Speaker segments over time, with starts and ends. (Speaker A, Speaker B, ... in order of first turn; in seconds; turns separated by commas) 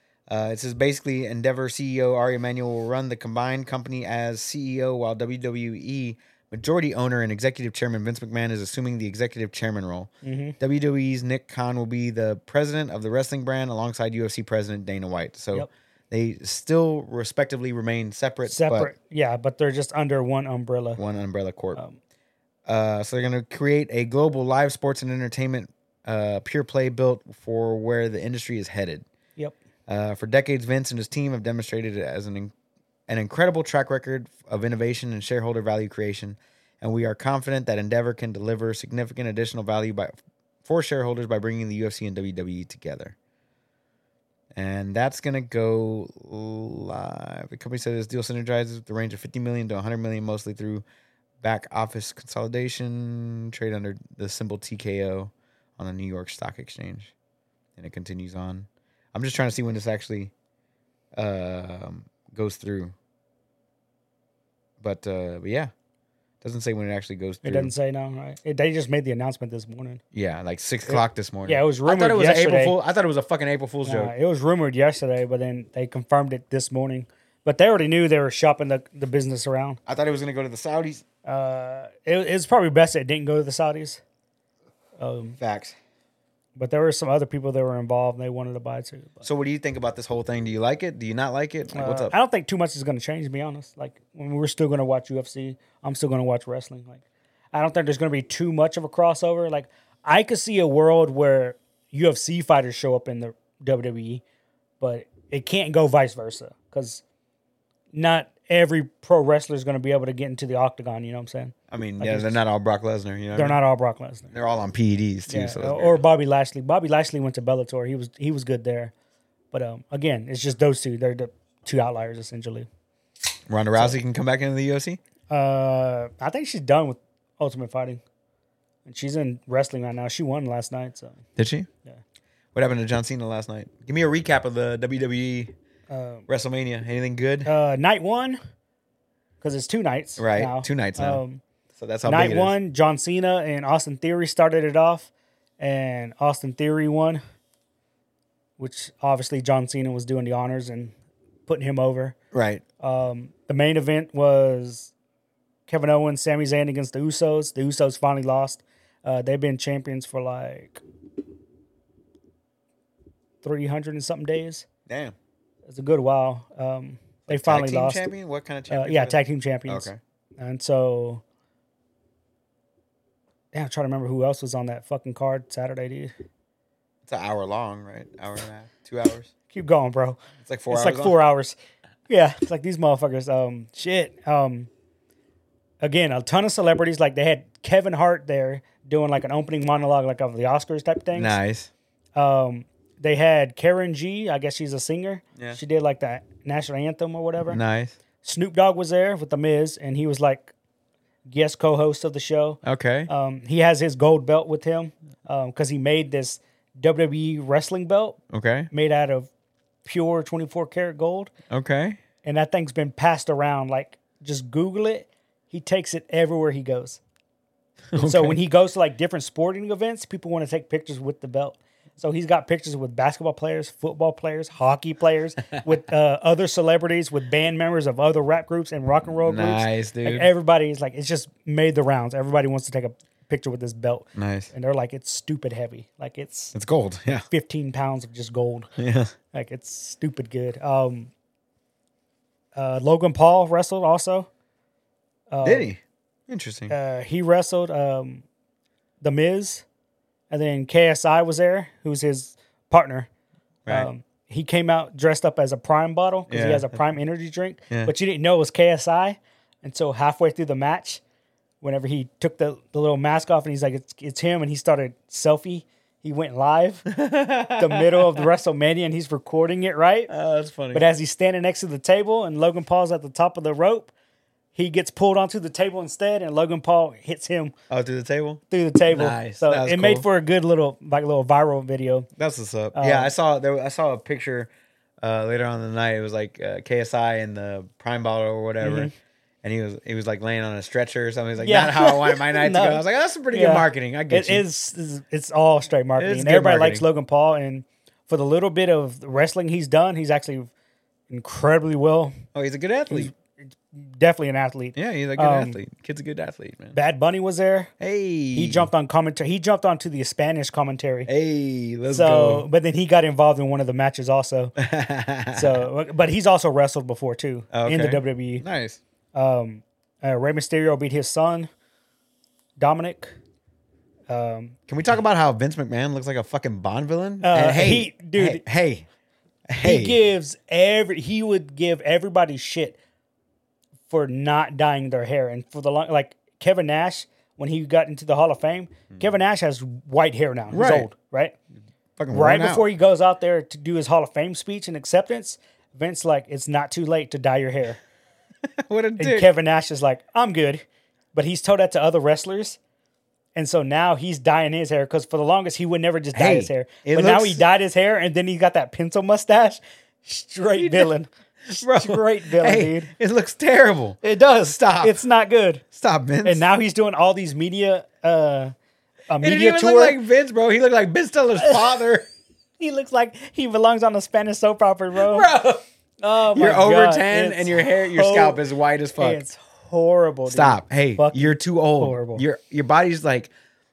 Speaker A: 0.3-18.9, Speaker B: 10.2-10.6, Speaker B: 18.4-21.0, Speaker A: 21.0-21.8, Speaker A: 22.6-29.1, Speaker A: 29.9-32.5, Speaker A: 33.1-43.1, Speaker A: 44.5-50.8, Speaker A: 51.4-57.1, Speaker A: 57.8-60.3, Speaker A: 61.1-62.9, Speaker A: 64.8-65.7, Speaker A: 66.4-67.7, Speaker B: 67.4-70.0, Speaker A: 70.1-74.1, Speaker B: 70.9-72.7, Speaker B: 73.8-79.8, Speaker A: 79.9-81.0, Speaker B: 81.2-84.0, Speaker B: 85.0-85.4, Speaker A: 85.4-85.8, Speaker B: 86.5-89.3, Speaker A: 89.2-92.1, Speaker B: 91.7-97.0, Speaker B: 97.5-104.2, Speaker B: 104.8-107.0, Speaker B: 107.9-112.4, Speaker A: 111.7-113.6, Speaker B: 113.3-114.3, Speaker A: 114.3-116.0, Speaker B: 115.3-118.9, Speaker B: 119.5-122.7, Speaker A: 123.5-125.0, Speaker B: 125.3-128.0, Speaker B: 128.8-131.2, Speaker A: 131.4-131.7, Speaker A: 132.5-135.5, Speaker B: 135.9-136.3, Speaker A: 136.3-137.5, Speaker B: 137.4-138.4, Speaker B: 139.4-141.4, Speaker A: 140.2-141.2, Speaker A: 141.8-142.5, Speaker B: 142.0-147.2, Speaker B: 148.6-150.9, Speaker B: 151.5-152.2, Speaker A: 152.3-152.6, Speaker B: 152.8-154.9, Speaker B: 155.7-160.8, Speaker B: 163.4-164.7, Speaker A: 164.9-165.1, Speaker B: 165.7-168.1, Speaker A: 167.3-170.0, Speaker B: 168.7-171.2, Speaker B: 173.5-176.1, Speaker A: 177.0-179.3, Speaker B: 179.5-181.6, Speaker A: 180.4-181.2, Speaker B: 182.1-184.7, Speaker B: 185.8-191.3, Speaker A: 191.1-191.7, Speaker B: 192.2-197.6, Speaker A: 197.5-198.0, Speaker B: 198.2-200.5, Speaker B: 201.3-208.2, Speaker A: 202.6-203.1, Speaker A: 208.3-208.7, Speaker B: 208.7-209.3, Speaker B: 209.8-211.3, Speaker A: 211.5-212.0, Speaker B: 212.2-217.0, Speaker A: 217.9-218.4, Speaker B: 217.9-236.5, Speaker A: 229.1-230.3, Speaker A: 234.1-234.5, Speaker A: 236.5-237.2, Speaker B: 237.3-238.7, Speaker A: 238.8-239.1, Speaker B: 239.3-241.1, Speaker B: 242.5-244.3, Speaker B: 245.3-245.7, Speaker A: 245.4-246.7, Speaker B: 246.7-248.2, Speaker B: 249.0-249.6, Speaker B: 250.3-253.1, Speaker B: 253.7-261.0, Speaker A: 256.3-256.8, Speaker B: 261.6-266.9, Speaker A: 266.9-268.2, Speaker B: 267.5-270.1, Speaker A: 270.1-270.9, Speaker B: 270.7-273.9, Speaker B: 274.5-277.5, Speaker A: 277.7-280.1, Speaker B: 278.5-282.1, Speaker A: 282.2-284.5, Speaker B: 282.7-283.1, Speaker A: 285.0-288.9, Speaker B: 288.6-288.9, Speaker A: 289.4-294.4, Speaker B: 291.4-300.5, Speaker A: 296.0-296.8, Speaker B: 301.1-302.1, Speaker A: 302.3-303.1, Speaker B: 302.9-305.6, Speaker A: 304.7-306.8, Speaker B: 306.7-307.7, Speaker A: 307.8-308.7, Speaker B: 308.3-311.1, Speaker A: 311.1-312.4, Speaker B: 311.9-314.5, Speaker A: 314.6-315.6, Speaker B: 315.3-318.4, Speaker A: 317.5-318.8, Speaker B: 319.1-321.5, Speaker B: 322.6-323.1, Speaker B: 324.1-324.5, Speaker A: 324.7-328.9, Speaker B: 327.2-328.4, Speaker A: 329.5-330.0, Speaker B: 329.6-332.8, Speaker B: 333.9-341.4, Speaker A: 340.5-340.9, Speaker A: 342.0-342.6, Speaker B: 342.1-347.8, Speaker A: 348.4-349.3, Speaker B: 349.0-352.6, Speaker B: 353.3-362.9, Speaker A: 356.1-357.4, Speaker A: 360.6-360.9, Speaker A: 361.5-365.0, Speaker B: 364.0-365.6, Speaker A: 365.7-366.5, Speaker B: 366.2-368.5, Speaker B: 369.1-370.0, Speaker A: 369.2-372.1, Speaker B: 371.4-371.6, Speaker B: 372.6-375.3, Speaker A: 374.9-375.6, Speaker B: 376.0-378.4, Speaker A: 376.3-379.2, Speaker B: 379.0-382.2, Speaker A: 380.3-383.3